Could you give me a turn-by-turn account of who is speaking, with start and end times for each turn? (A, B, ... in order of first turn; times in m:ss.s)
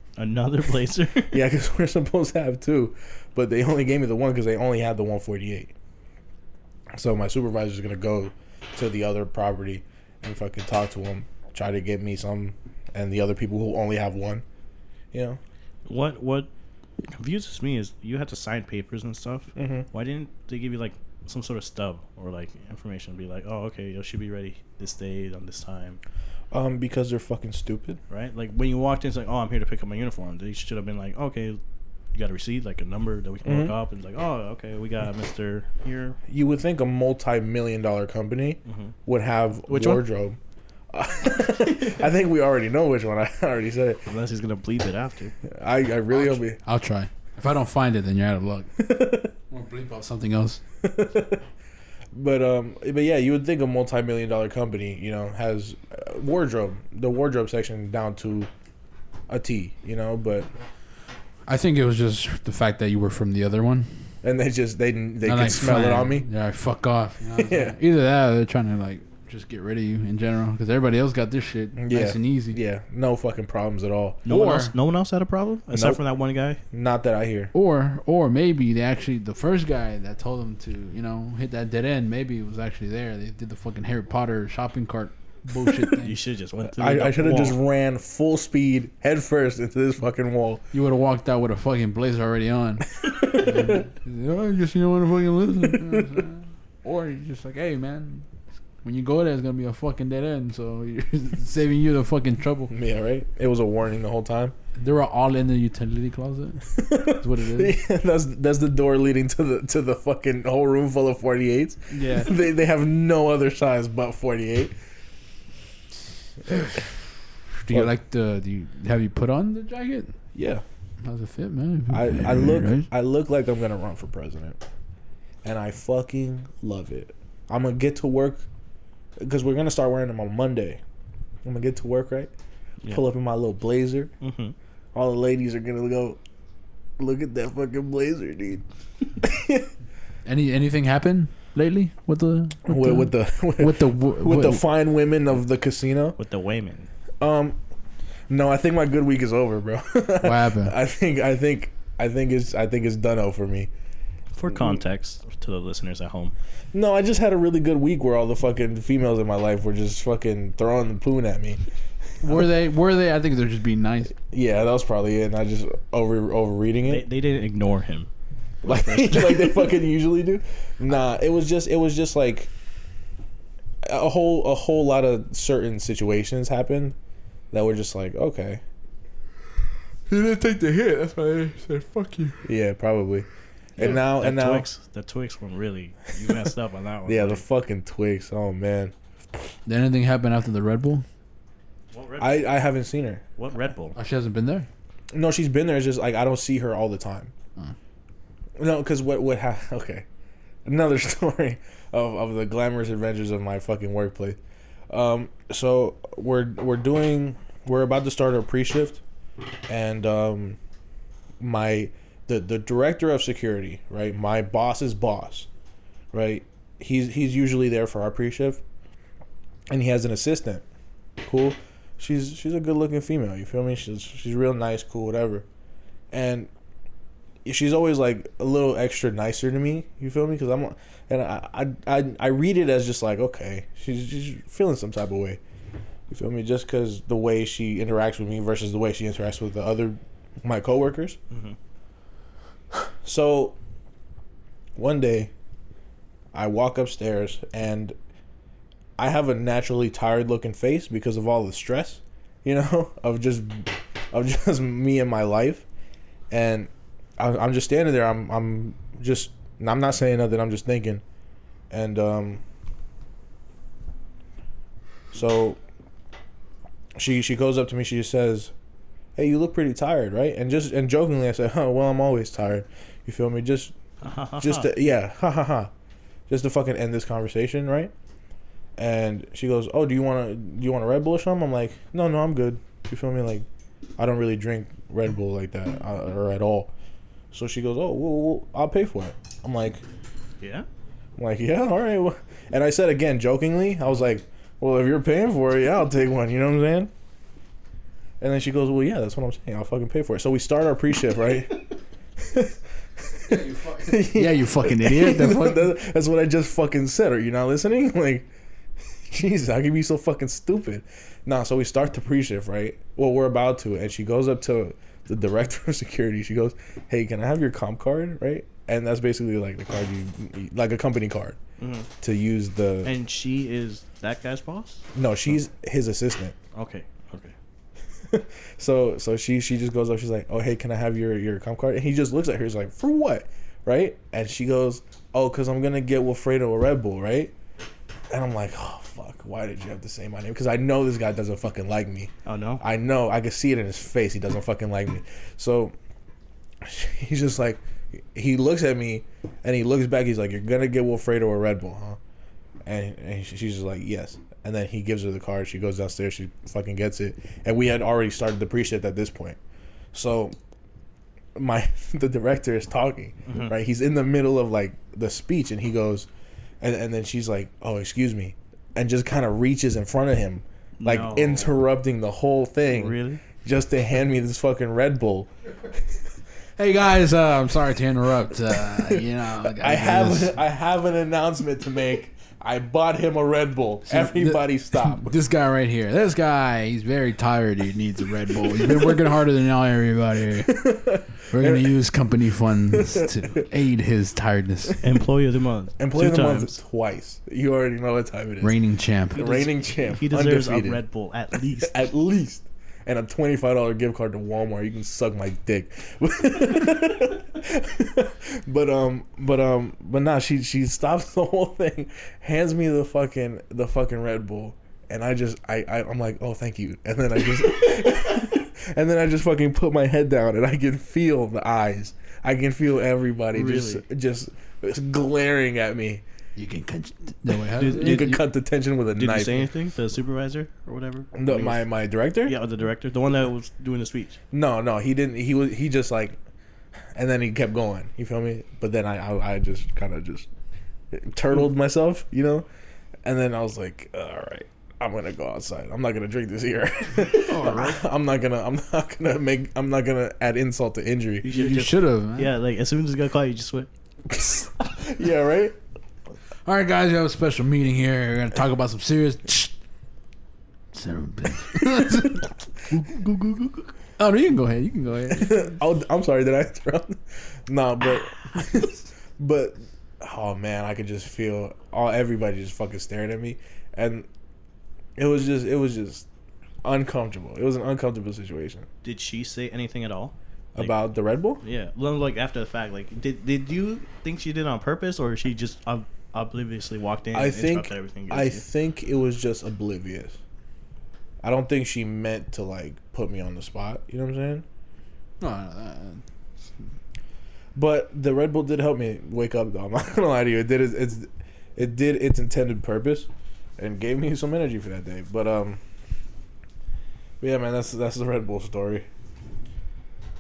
0:00.2-0:01.4 A
0:01.3-0:05.7 B
0:06.9-0:14.4 B
0:15.1-0:15.4 B
0:15.9-0:16.5 A
0:17.1-0:26.0 A
0:19.6-0:19.9 B
0:26.5-0:28.0 B
0:28.1-0:31.6 A
0:32.1-0:36.2 A
0:33.4-0:33.7 B
0:36.3-0:40.4 B
0:38.7-0:38.9 A
0:39.7-0:40.0 A
0:40.9-0:44.1 B
0:44.1-0:45.4 A
0:45.4-0:46.6 B
0:46.1-0:50.6 C
0:48.8-0:49.3 B
0:50.8-0:51.4 B
0:52.1-0:58.5 B
0:59.3-1:00.5 B
1:01.5-1:03.9 C
1:04.2-1:06.3 B
1:05.2-1:12.6 C
1:07.4-1:07.8 B
1:11.8-1:14.3 B
1:14.3-1:16.6 A
1:14.3-1:14.7 C
1:15.7-1:16.0 B
1:16.7-1:17.5 B
1:17.5-1:26.2 C
1:26.0-1:27.6 A
1:26.6-1:30.6 B
1:30.7-1:38.3 C
1:33.0-1:33.8 B
1:38.8-1:42.7 C
1:42.7-1:44.6 B
1:44.8-1:47.8 C
1:46.8-1:54.7 B
1:51.9-1:52.3 C
1:56.5-1:56.8 B
1:57.6-2:00.2 C
2:00.4-2:00.6 B
2:01.0-2:02.9 C
2:01.9-2:04.6 B
2:05.4-2:08.5 B
2:09.2-2:10.8 B
2:11.4-2:12.3 B
2:12.9-2:14.1 B
2:14.2-2:14.6 A
2:15.0-2:16.2 B
2:17.0-2:18.6 B
2:19.2-2:19.7 B
2:20.2-2:24.6 C
2:22.6-2:26.2 B
2:26.2-2:26.9 A
2:27.2-2:27.6 B
2:28.3-2:33.7 B
2:30.2-2:30.8 C
2:34.3-2:36.3 A
2:34.5-2:34.8 B
2:36.7-2:41.6 B
2:42.2-2:44.2 C
2:44.3-2:47.0 B
2:46.8-2:48.1 A
2:48.6-2:49.7 A
2:48.6-2:52.5 B
2:53.8-2:57.0 B
2:57.5-2:58.6 B
3:00.1-3:02.4 C
3:02.4-3:03.3 B
3:03.8-3:04.7 B
3:03.8-3:07.4 A
3:07.1-3:08.9 B
3:09.7-3:11.0 C
3:11.9-3:12.5 A
3:12.2-3:13.2 B
3:13.4-3:14.0 A
3:14.0-3:14.7 C
3:15.1-3:17.3 B
3:18.6-3:20.1 B
3:20.6-3:24.4 B
3:24.9-3:29.0 B
3:29.7-3:30.6 B
3:31.4-3:35.5 B
3:36.1-3:38.6 B
3:39.7-3:40.6 B
3:41.2-3:45.5 B
3:46.1-3:46.5 B
3:47.4-3:55.4 B
3:56.1-4:01.2 B
4:01.3-4:01.6 A
4:02.7-4:03.6 B
4:04.8-4:05.3 B
4:06.3-4:08.0 B
4:09.0-4:15.7 B
4:16.3-4:21.0 B
4:21.7-4:22.4 B
4:25.1-4:25.6 B
4:27.0-4:28.5 B
4:29.2-4:33.8 B
4:34.0-4:34.7 A
4:34.4-4:35.7 B
4:36.3-4:37.9 B
4:38.8-4:43.5 B
4:44.0-4:46.7 B
4:47.3-4:49.8 B
4:50.4-4:50.7 A
4:51.2-4:56.9 B
4:58.2-5:01.6 B
5:02.2-5:08.3 B
5:03.3-5:05.7 C
5:09.1-5:21.4 B
5:21.6-5:21.9 A
5:22.0-5:22.9 B
5:22.8-5:25.4 A
5:25.0-5:26.4 B
5:26.5-5:27.4 A
5:28.1-5:37.3 B
5:38.1-5:45.8 B
5:42.2-5:42.6 A
5:46.6-5:52.0 B
5:52.6-5:59.4 B
5:59.9-6:00.4 B
6:01.4-6:06.1 B
6:03.3-6:03.5 A
6:06.6-6:15.3 B
6:10.8-6:11.6 A
6:12.7-6:13.2 A
6:16.6-6:20.4 C
6:18.7-6:25.2 B
6:23.9-6:34.8 C
6:30.5-6:31.7 B
6:34.8-6:36.6 A
6:35.8-6:38.6 B
6:38.4-6:39.4 C
6:39.1-6:40.8 B
6:39.4-6:41.8 A
6:41.6-7:06.0 B
7:03.3-7:03.8 A
7:06.4-7:08.2 C
7:07.6-7:08.2 A
7:07.6-7:09.5 B
7:09.0-7:11.7 A
7:11.1-7:12.4 B
7:12.2-7:14.2 A
7:14.3-7:16.2 B
7:17.0-7:20.3 B
7:20.9-7:22.5 B
7:23.0-7:31.3 B
7:27.1-7:27.8 C
7:31.2-7:33.7 A
7:31.3-7:32.4 C
7:34.1-7:35.6 B
7:36.4-7:39.5 C
7:40.7-7:42.9 C
7:42.8-7:43.6 B
7:44.0-7:45.6 C
7:45.1-7:54.1 B
7:55.0-7:56.1 B
7:56.6-7:58.7 B
7:58.8-8:00.8 A
8:00.6-8:01.4 B
8:01.4-8:08.4 A
8:07.1-8:10.2 B
8:11.2-8:14.4 B
8:15.2-8:16.0 C
8:17.6-8:25.6 B
8:27.2-8:28.9 B